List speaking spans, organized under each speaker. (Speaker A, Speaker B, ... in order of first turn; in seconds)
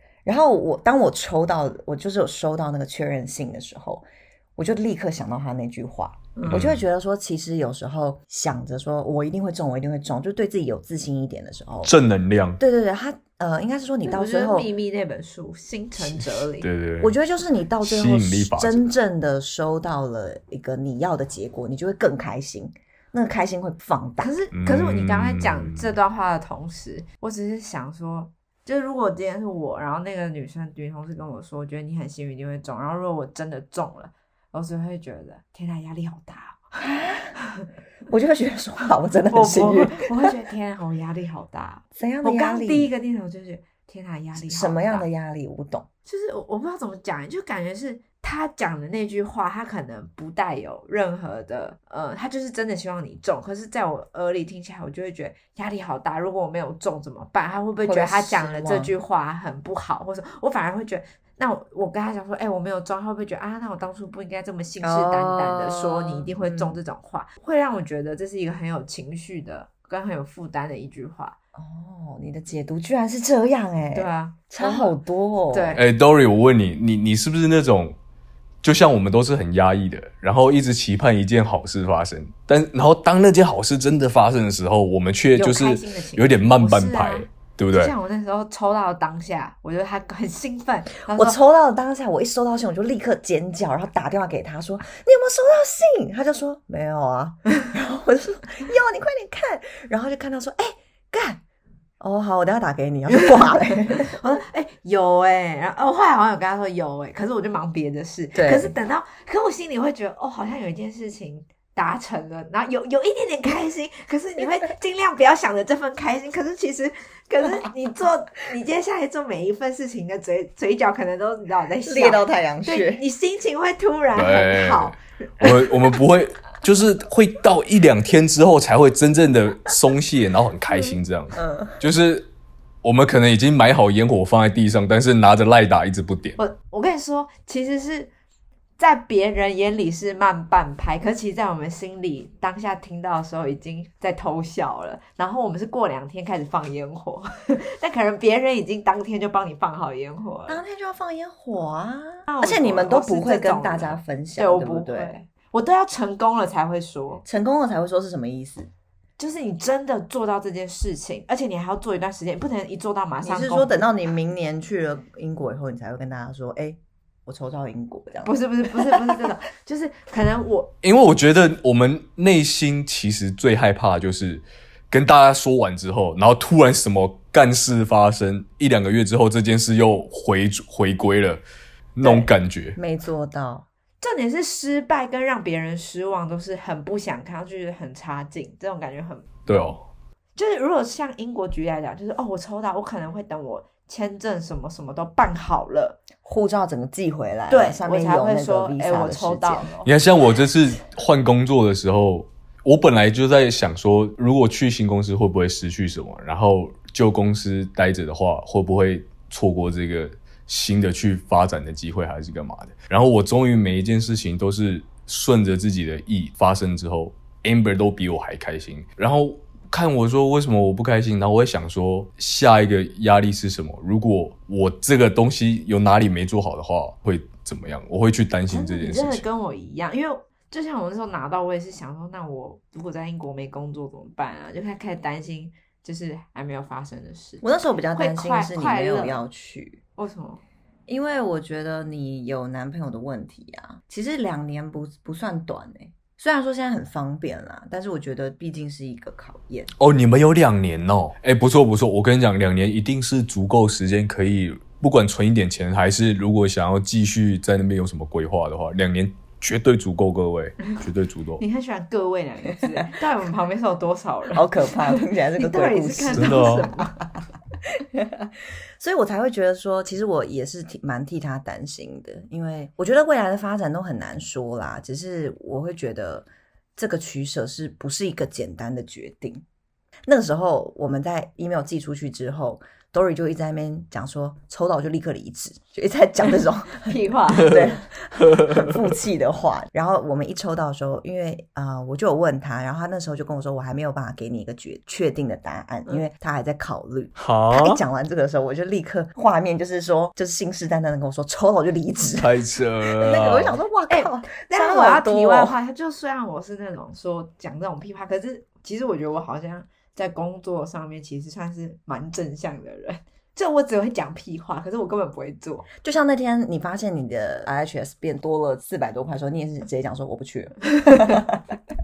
Speaker A: 0.2-11.9, 12.6-14.7, 17.0-24.3, 36.8-37.4, 38.1-40.3, 42.0-42.9, 44.4-45.9, 57.8-58.9, 64.8-66.8, 71.5-75.8, 91.1-101.4, 102.0-104.2, 108.3-108.8, 121.8-123.0, 131.4-131.8, 150.5-155.2, 157.2-158.7, 163.2-168.3, 182.0-183.7, 196.2-199.7, 237.4-239.8, 240.9-249.7, 264.3-267.2, 267.8-279.4, 280.1-305.6, 315.8-321.6
Speaker B: 6.4-6.6, 14.1-16.7, 24.2-36.8, 37.4-37.7, 39.3-45.1, 46.1-71.4, 73.9-75.0, 75.5-75.8, 85.3-91.4, 103.9-125.8, 136.4-138.1, 138.8-150.6, 152.3-157.2, 159.2-163.9, 168.2-170.7, 184.0-189.3, 190.4-196.0, 197.5-199.9, 228.5-239.2, 240.0-240.4, 261.4-267.0, 286.9-287.7, 303.9-315.7, 320.9-321.2
Speaker C: 6.5-6.8, 11.8-12.6, 16.0-17.2, 17.8-18.9, 24.5-25.9, 75.8-78.0, 78.6-87.9, 124.2-132.3, 132.8-136.4, 170.8-181.4, 182.0-182.8, 189.5-189.8, 199.8-229.2, 249.8-261.4, 266.1-266.7, 288.2-288.8, 297.2-297.8, 302.1-303.6